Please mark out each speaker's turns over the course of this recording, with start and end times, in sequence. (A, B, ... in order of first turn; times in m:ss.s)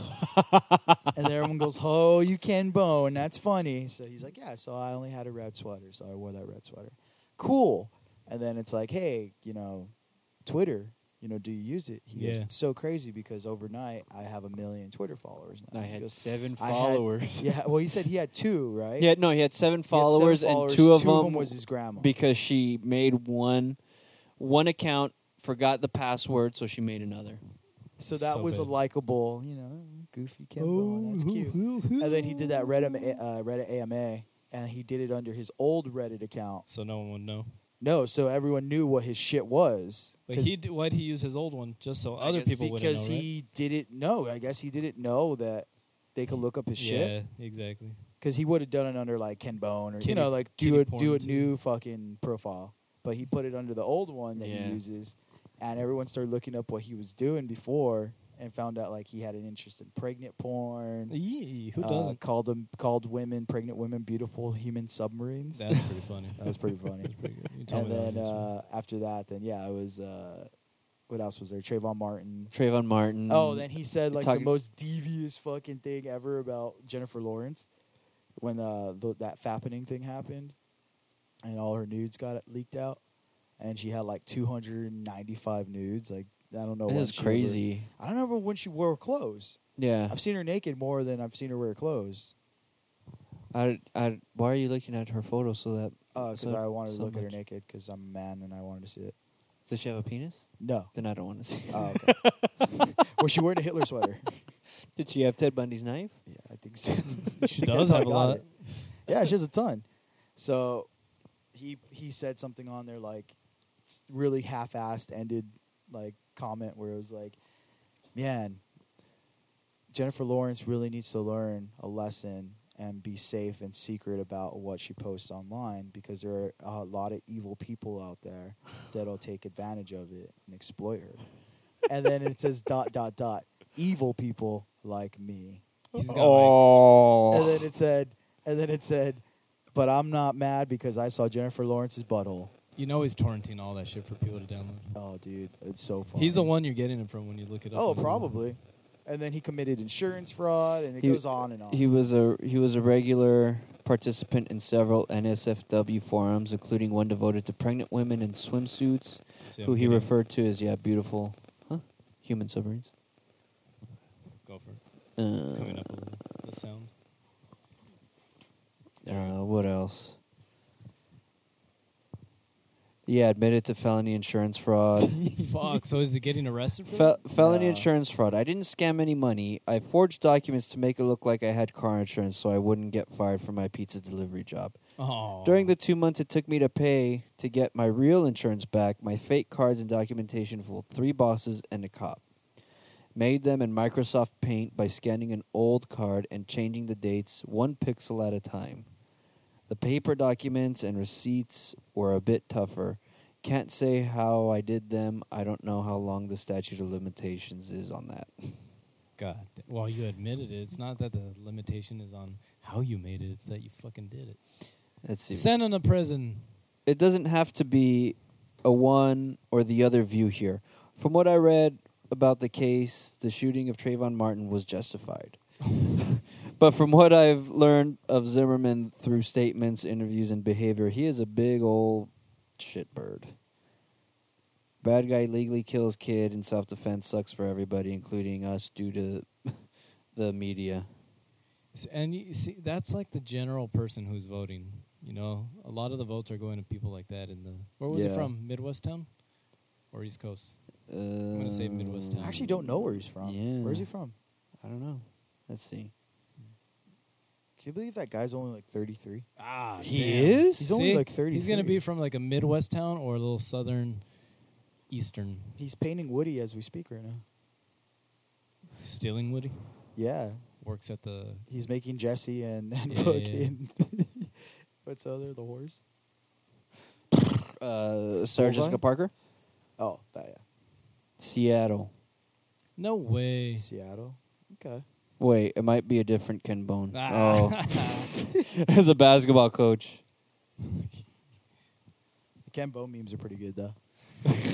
0:00.3-0:01.0 A
0:01.1-0:09.9 B
0:10.4-0:19.1 B
0:12.1-0:12.5 C
0:15.7-0:17.6 A
0:19.0-0:23.8 A
0:19.9-0:22.1 B
0:24.4-0:27.4 A
0:28.0-0:36.7 B
0:28.1-0:28.7 C
0:30.6-0:32.9 C
0:36.7-0:37.6 C
0:37.8-0:40.6 B
0:40.3-0:43.3 C
0:42.2-0:42.7 A
0:42.6-0:47.2 B
0:46.8-0:48.1 C
0:48.2-1:01.2 B
0:50.0-0:51.6 C
0:54.4-0:54.8 A
1:01.1-1:02.2 C
1:01.8-1:07.1 B
1:05.5-1:08.5 C
1:07.7-1:10.5 B
1:11.1-1:12.5 B
1:12.5-1:14.5 A
1:13.3-1:17.7 B
1:18.4-1:20.6 B
1:21.4-1:23.0 B
1:23.6-1:32.3 B
1:26.9-1:27.9 A
1:29.8-1:30.2 A
1:33.5-1:37.4 A
1:36.1-1:39.2 B
1:39.7-1:42.7 A
1:40.6-1:40.9 B
1:41.7-1:42.2 B
1:43.0-1:44.5 B
1:45.0-1:46.2 A
1:46.3-1:49.8 B
1:47.3-1:48.9 C
1:50.4-1:50.9 B
1:51.5-1:53.4 B
1:53.9-1:57.4 B
1:58.1-1:58.6 B
1:59.9-2:11.2 B
2:11.9-2:15.6 B
2:15.9-2:17.6 A
2:16.0-2:16.7 C
2:17.3-2:22.5 B
2:22.8-2:25.0 C
2:25.0-2:26.5 B
2:26.1-2:28.4 C
2:27.7-2:31.9 B
2:31.0-2:42.9 A
2:39.5-2:40.1 C
2:44.4-2:46.9 C
2:45.2-2:45.9 A
2:49.0-2:50.2 A
2:53.1-2:55.2 A
2:55.1-2:55.5 B
2:55.4-2:57.2 C
2:56.9-3:04.8 A
2:57.4-2:57.9 B
3:05.0-3:05.8 C
3:05.4-3:12.2 A
3:13.2-3:18.9 A
3:19.7-3:28.7 A
3:29.2-3:34.4 C
3:35.0-3:35.5 A
3:35.3-3:36.5 C
3:36.9-3:45.4 A
3:45.9-3:53.4 A
3:54.8-4:01.0 A
4:01.7-4:09.2 C
4:07.9-4:08.3 B
4:09.9-4:12.5 C
4:10.9-4:13.9 A
4:12.2-4:14.2 B
4:14.6-4:15.9 A
4:17.6-4:19.3 B
4:19.4-4:24.0 C
4:19.8-4:20.7 A
4:20.6-4:21.8 B
4:24.9-4:25.6 C
4:25.6-4:27.2 B
4:28.8-4:29.8 C
4:30.0-4:30.4 B
4:30.6-4:31.5 C
4:31.5-4:35.8 B
4:32.9-4:33.5 C
4:37.6-4:39.1 A
4:38.4-4:38.8 B
4:39.8-4:40.4 B
4:41.2-4:41.9 A
4:42.8-4:43.7 C
4:43.6-4:44.8 B
4:45.2-4:50.0 A
4:46.9-4:48.1 C
4:50.6-4:51.0 C
4:52.4-4:53.8 B